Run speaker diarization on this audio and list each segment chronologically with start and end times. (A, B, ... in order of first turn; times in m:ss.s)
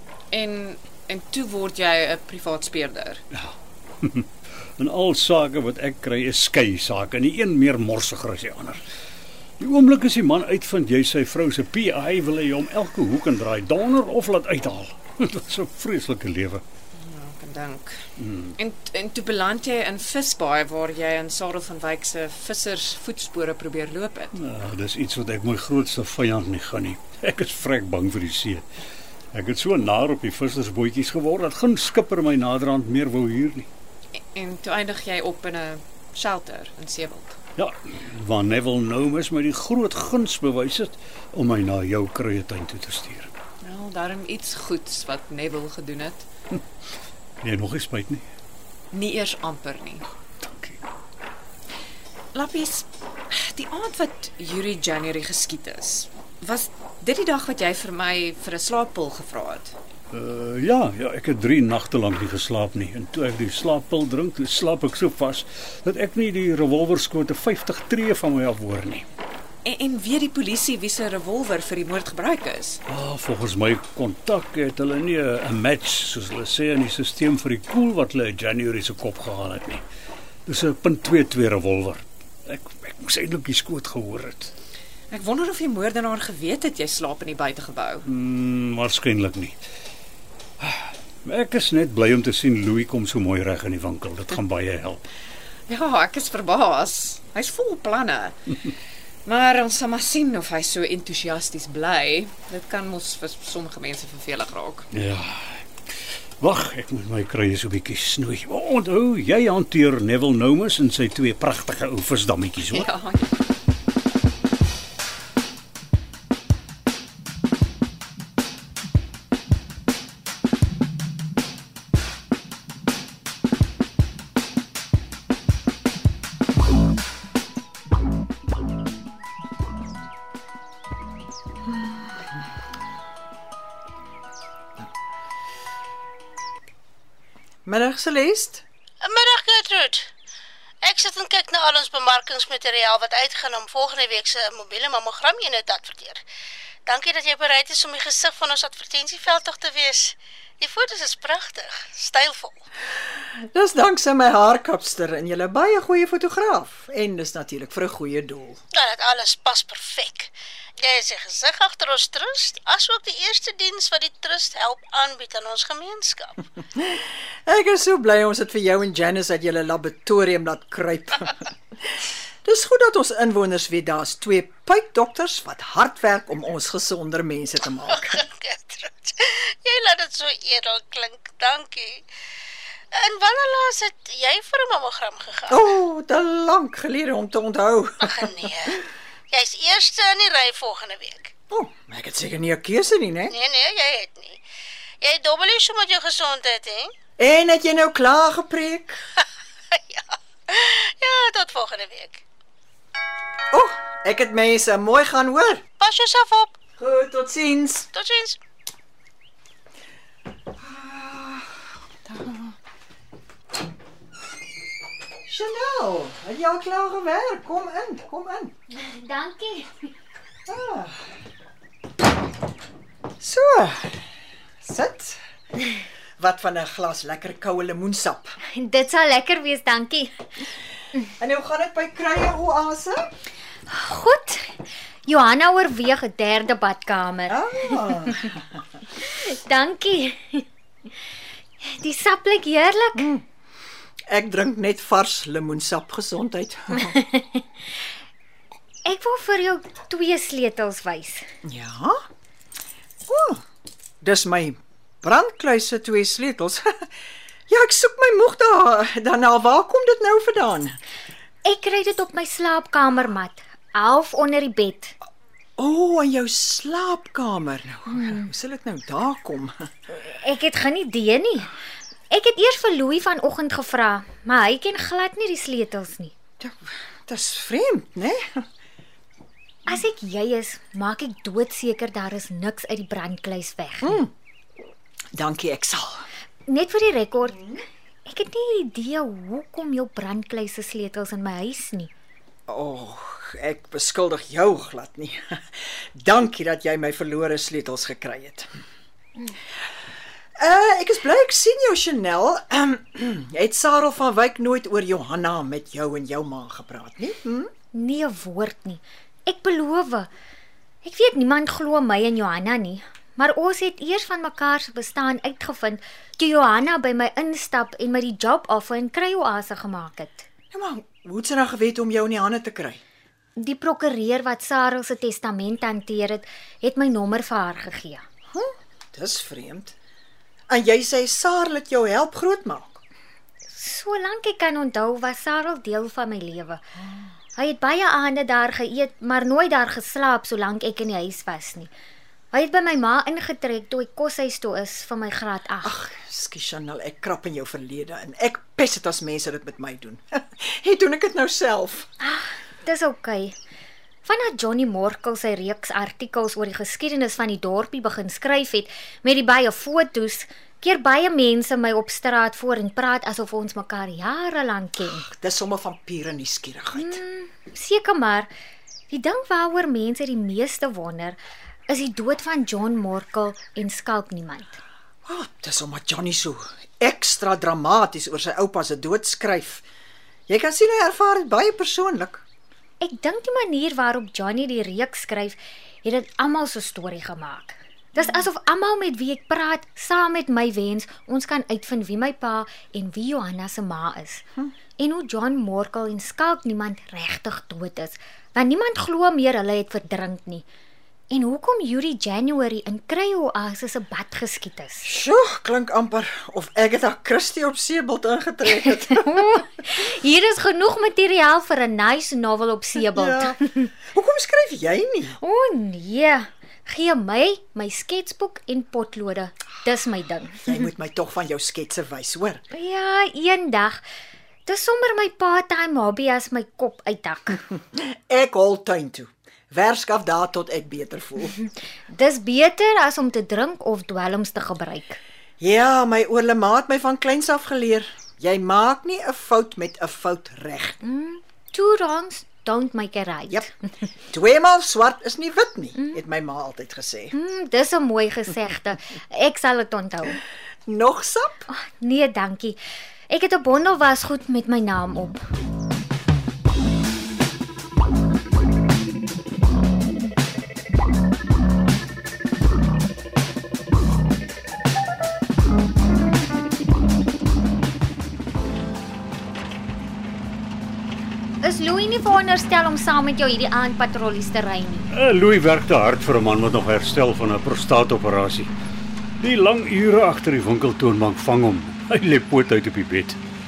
0:00.3-0:03.2 A
0:03.3-0:08.8 B
0:09.6-0:16.6 B
0:17.0-0:18.0 A
0:18.2-0:18.6 B
0:18.6-0:24.4 A
0:24.3-0:28.6 B
0:29.3-0:33.7 B
0:34.3-0:37.4 A
0:37.6-0:43.3 B
0:43.6-0:46.2 A
0:47.4-0:48.2 B
0:48.9-0:50.1 A
0:50.4-0:50.8 B
0:52.3-0:59.8 A
1:00.1-1:09.0 B
1:09.6-1:12.8 A
1:12.9-1:19.8 B
1:20.5-1:24.5 B
1:25.1-1:28.1 A
1:28.1-1:29.6 B
1:30.6-1:35.0 B
1:35.7-1:38.6 A
1:39.2-1:44.9 A
1:44.9-1:45.6 B
1:46.4-1:52.9 B
1:52.7-1:53.4 A
2:17.7-2:18.6 C
2:19.0-2:20.1 D
2:20.8-2:26.2 D
2:26.9-2:32.6 D
2:33.5-2:38.6 C
2:38.7-2:46.4 D
2:46.8-2:51.4 C
2:52.4-2:58.2 C
2:57.9-3:02.1 D
3:02.9-3:05.6 D
3:05.5-3:08.4 C
3:08.0-3:11.3 D
3:11.5-3:13.4 C
3:13.3-3:14.4 D
3:15.0-3:16.9 D
3:17.2-3:19.0 C
3:19.7-3:22.2 D
3:23.5-3:25.6 C
3:25.8-3:26.6 D
3:26.8-3:27.9 C
3:27.9-3:28.4 D
3:30.6-3:31.5 C
3:35.3-3:38.5 C
3:38.7-3:39.7 E
3:40.5-3:41.0 C
3:43.2-3:44.0 C
3:44.6-3:45.2 C
3:46.2-3:48.4 C
3:48.6-3:50.1 E
3:51.2-3:53.1 C
3:53.7-3:54.5 E
3:55.1-3:58.0 E
3:57.3-3:58.3 C
3:59.0-4:00.4 E
4:01.6-4:03.1 E
4:03.0-4:03.2 C
4:04.1-4:07.0 C
4:07.0-4:07.4 E
4:08.8-4:11.3 E
4:11.4-4:12.0 C
4:13.1-4:13.4 C
4:14.0-4:16.9 C
4:17.5-4:20.8 C
4:21.4-4:25.0 E
4:25.6-4:29.7 C
4:30.0-4:31.5 E
4:32.1-4:36.1 E
4:36.4-4:38.4 C
4:39.7-4:44.0 E
4:43.8-4:44.1 C
4:45.1-4:46.1 C
4:46.5-4:51.9 E
4:52.5-4:58.5 C
5:00.4-5:07.5 C
5:07.7-5:10.1 E
5:10.8-5:20.3 E
5:20.5-5:22.8 C
5:23.4-5:28.0 E
5:28.3-5:29.7 C
5:30.5-5:32.8 C
5:33.5-5:36.6 E
5:37.4-5:41.7 E
5:42.3-5:45.8 E
5:45.6-5:51.9 C
5:52.0-5:53.4 E
5:54.0-6:05.0 E
6:04.9-6:07.0 C
6:06.8-6:08.3 E
6:08.9-6:14.6 E
6:15.1-6:19.6 C
6:20.3-6:22.2 C
6:22.8-6:34.2 E
6:34.8-6:40.5 E
6:41.1-6:44.9 E
6:44.8-6:49.4 C
6:48.6-6:53.7 E
6:52.9-6:53.4 C
6:53.9-6:55.2 C
6:55.2-7:00.5 E
7:00.4-7:02.4 C
7:02.5-7:03.8 E
7:04.5-7:07.4 E
7:07.8-7:11.4 C
7:11.9-7:15.0 E
7:15.4-7:20.8 C
7:20.8-7:23.5 E
7:24.1-7:27.1 C
7:27.1-7:30.2 E
7:30.7-7:31.5 C
7:31.5-7:35.2 E
7:51.4-7:54.9 E
7:54.9-7:58.5 B
7:59.2-8:03.2 B